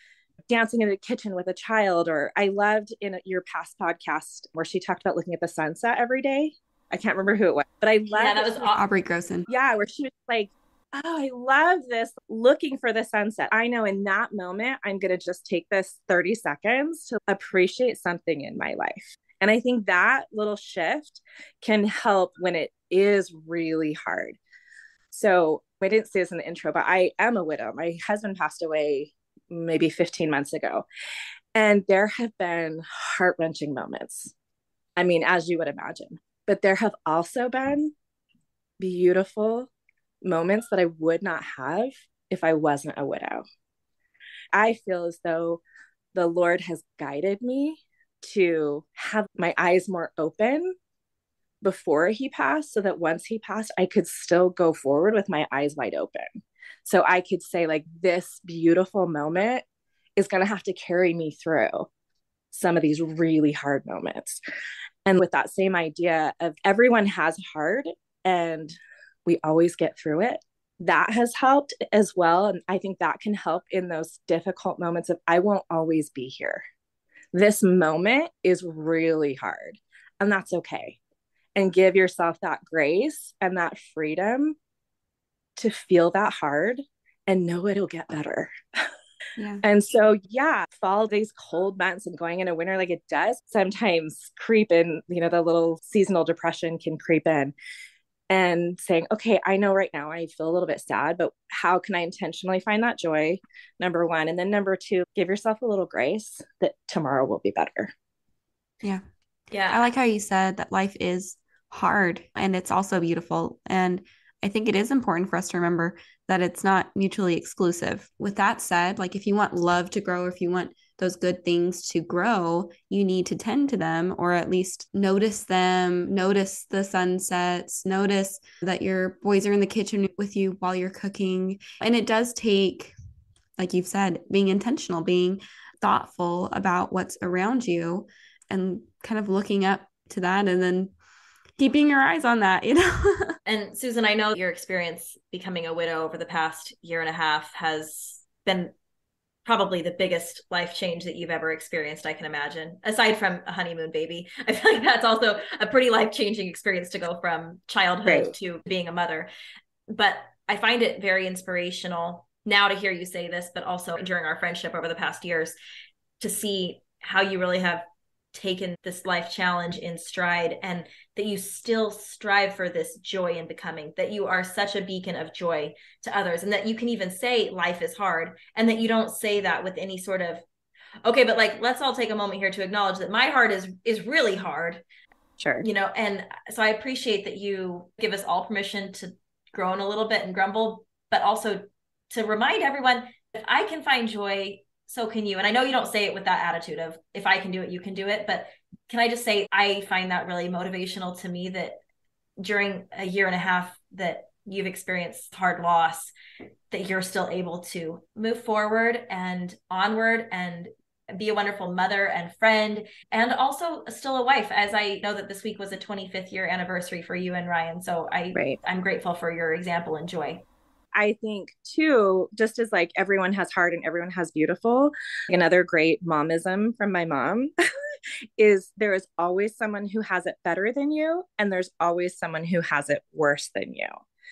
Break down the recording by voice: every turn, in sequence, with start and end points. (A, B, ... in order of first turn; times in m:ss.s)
0:00.5-0:08.7 A
0:08.1-0:08.8 B
0:08.8-0:09.5 C
0:09.5-0:24.4 A
0:25.1-0:30.8 A
0:31.6-0:34.3 A
0:35.0-0:37.9 A
0:38.8-0:39.7 A
0:40.2-0:43.4 A
0:44.5-0:45.6 A
0:46.1-0:50.7 A
0:51.6-0:59.6 A
1:00.2-1:01.9 A
1:02.5-1:04.4 A
1:05.1-1:16.6 A
1:17.3-1:21.0 A
1:21.6-1:24.6 A
1:25.6-1:28.6 A
1:29.4-1:29.6 C
1:29.6-1:37.6 A
1:38.3-1:47.9 A
1:49.5-1:49.8 B
1:49.7-2:12.9 C
2:13.6-2:20.9 C
2:21.6-2:23.4 C
2:23.5-2:28.7 B
2:29.5-2:39.3 B
2:38.0-2:38.3 A
2:39.9-2:45.6 B
2:46.2-3:00.4 B
3:01.0-3:04.8 B
3:05.4-3:05.7 A
3:05.6-3:21.8 B
3:22.4-3:26.1 B
3:26.7-3:40.4 B
3:41.0-3:47.5 A
3:48.4-3:54.0 A